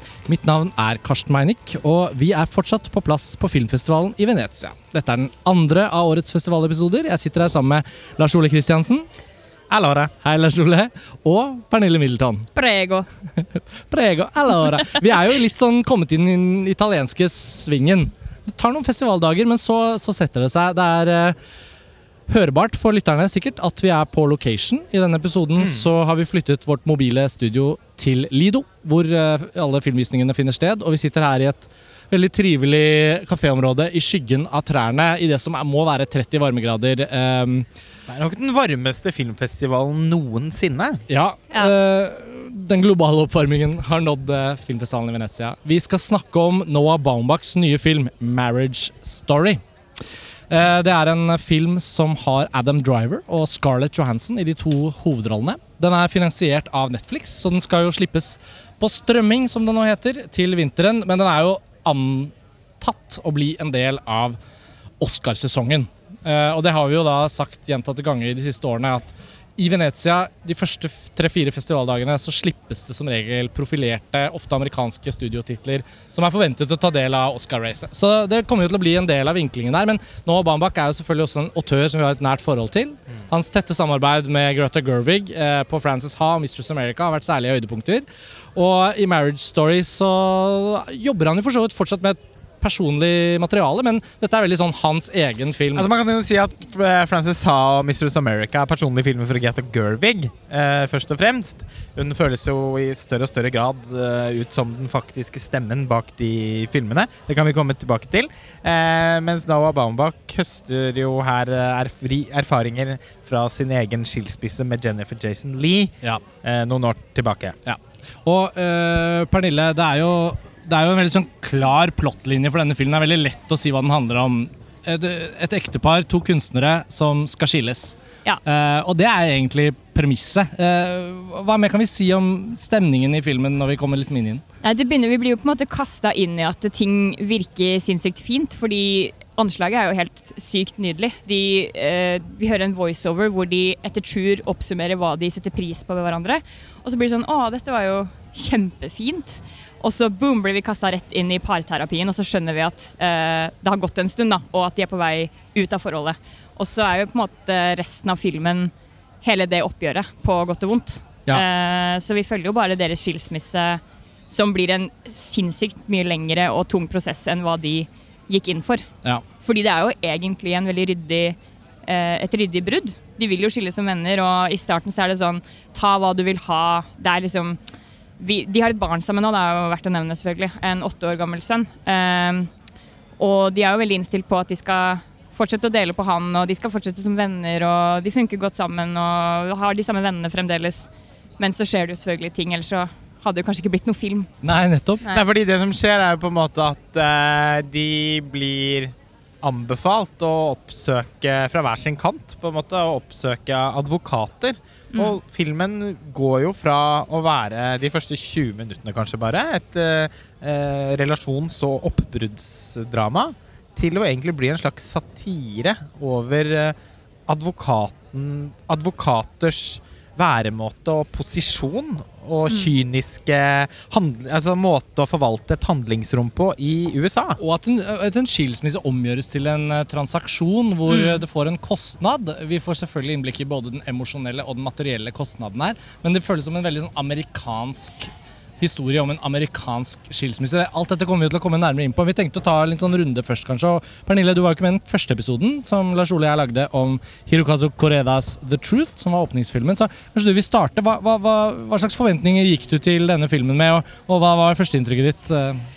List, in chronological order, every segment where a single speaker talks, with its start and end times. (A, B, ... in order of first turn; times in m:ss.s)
0:00.2-0:09.0 A
0:09.7-0:10.1 B
0:10.2-0:12.5 A
0:12.5-0:13.1 C
0:13.4-0:21.4 A
0:22.3-0:37.7 A
0:38.1-0:41.0 B
0:41.1-0:49.6 A
0:50.5-1:04.4 A
1:05.0-1:35.9 A
1:35.7-1:57.6 B
1:57.6-2:14.4 A
2:14.6-2:38.7 C
2:39.2-2:48.9 C
2:49.4-2:57.6 C
2:58.2-3:02.5 C
3:03.2-3:14.3 C
3:14.4-3:15.0 A
3:15.1-3:36.7 B
3:37.3-3:47.4 B
3:47.4-4:15.6 A
3:50.9-3:51.2 C